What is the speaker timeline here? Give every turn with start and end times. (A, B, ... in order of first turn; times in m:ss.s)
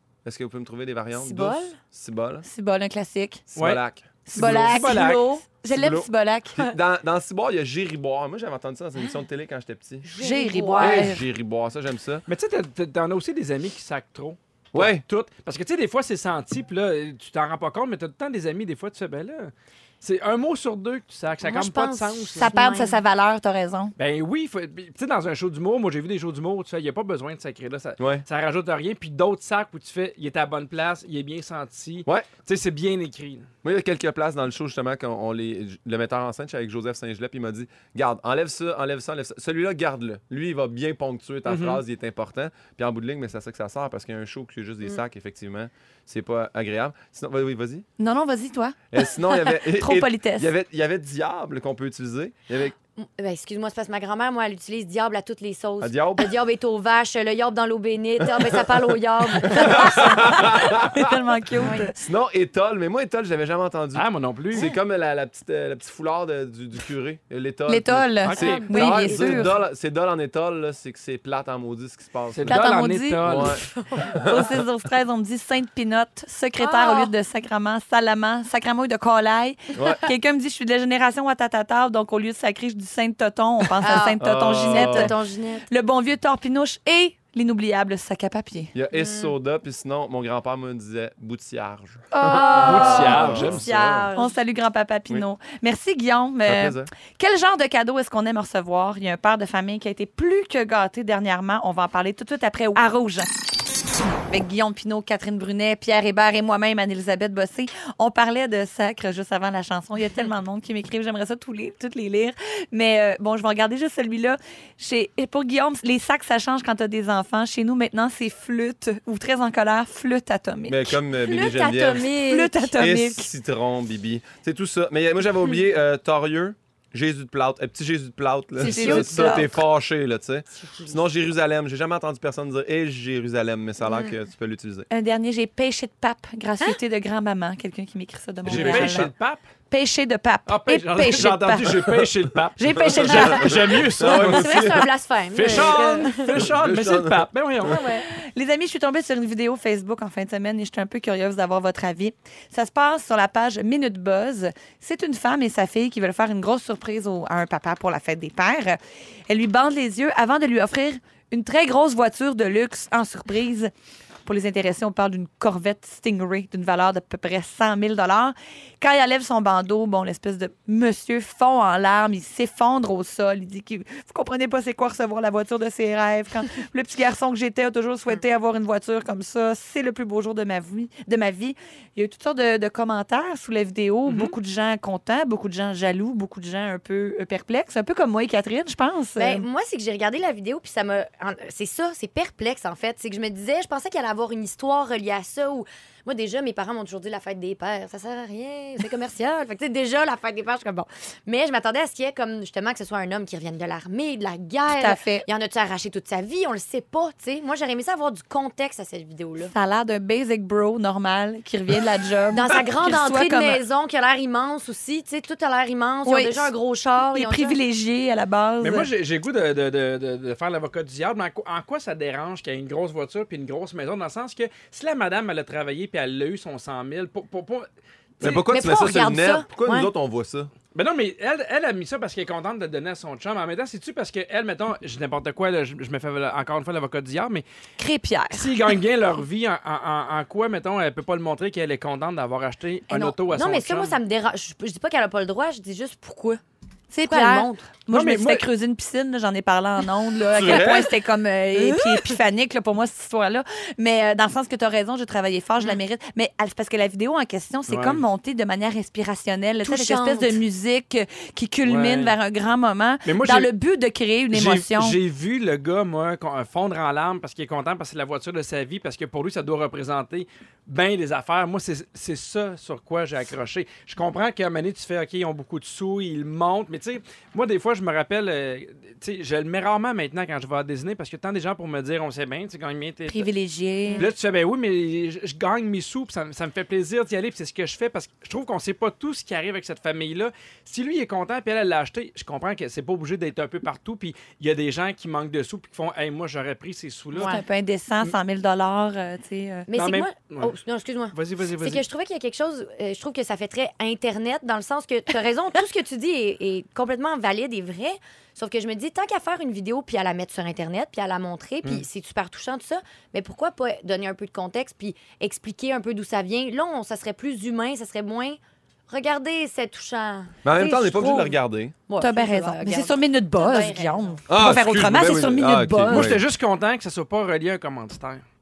0:00.2-0:02.5 A
0:01.2-0:01.8 B
0:02.4-0:03.4 C
0:03.5-0:04.8 A
0:03.6-0:03.8 D
0:04.3-0:06.6 C
0:04.3-0:05.3 D
0:04.7-0:05.4 B
0:05.7-0:10.1 A
0:10.0-0:11.1 B
0:10.2-0:11.2 C
0:10.8-0:12.3 A
0:12.3-0:22.5 D
0:14.7-0:15.0 A
0:21.4-0:23.0 B
0:22.4-0:23.9 C
0:24.0-0:33.5 D
0:28.0-0:28.3 A
0:33.6-0:47.9 A
0:41.5-0:41.8 D
0:48.0-0:50.5 C
0:48.9-0:52.8 A
0:53.0-1:00.5 B
0:55.8-0:56.3 A
0:58.2-0:58.8 A
0:59.4-1:01.2 A
1:00.3-1:01.9 C
1:01.6-1:01.9 B
1:02.0-1:12.6 A
1:04.0-1:04.7 D
1:07.7-1:09.5 C
1:08.2-1:08.6 D
1:08.3-1:09.5 B
1:12.3-1:13.6 D
1:12.5-1:13.5 C
1:13.2-1:14.5 A
1:13.6-1:14.2 B
1:14.2-1:25.2 C
1:16.6-1:17.1 B
1:19.8-1:20.0 A
1:23.8-1:25.7 B
1:24.2-1:25.1 A
1:25.7-1:28.7 C
1:28.7-1:34.1 A
1:28.9-1:29.3 B
1:32.1-1:43.3 C
1:32.2-1:34.3 B
1:32.4-1:33.8 D
1:36.5-1:36.9 A
1:44.3-2:00.9 C
2:00.7-2:14.9 A
2:01.2-2:02.7 B
2:02.2-2:03.3 C
2:08.6-2:09.5 B
2:08.6-2:09.6 C
2:10.5-2:11.0 B
2:13.8-2:14.1 B
2:14.9-2:19.1 C
2:18.4-2:19.1 A
2:18.5-2:19.4 D
2:19.7-2:22.0 C
2:20.5-2:24.8 D
2:22.6-2:23.8 C
2:23.1-2:24.9 A
2:24.0-2:26.3 B
2:25.3-2:27.9 D
2:26.3-2:27.3 A
2:27.7-2:28.0 B
2:27.7-2:43.7 C
2:44.2-3:09.4 C
3:04.1-3:04.4 D
3:09.2-3:29.5 B
3:24.7-3:25.3 C
3:29.5-3:33.6 C
3:32.3-3:37.6 B
3:36.1-3:36.5 C
3:37.1-3:38.9 C
3:38.6-3:47.7 D
3:48.2-3:50.5 A
3:48.5-3:49.9 B
3:50.7-3:57.4 D
3:57.8-3:58.5 C
3:58.3-4:04.0 D
4:02.9-4:03.2 C
4:03.3-4:06.4 B
4:06.9-4:25.0 C
4:07.1-4:07.7 B
4:07.9-4:08.5 D
4:10.3-4:10.9 A
4:11.6-4:12.1 B
4:17.7-4:18.0 D
4:19.7-4:20.4 B
4:21.6-4:22.2 D
4:23.0-4:23.5 D
4:24.3-4:43.3 D
4:43.1-4:44.1 C
4:43.8-4:44.1 B
4:44.0-4:57.4 D
4:57.1-4:57.4 B
4:57.2-4:59.7 C
4:59.7-5:21.3 B
4:59.8-5:00.6 D
5:01.1-5:01.8 D
5:20.4-5:21.8 A
5:20.6-5:21.0 C
5:21.9-5:24.1 B
5:22.0-5:26.1 C
5:24.3-5:26.2 A
5:25.9-5:28.2 D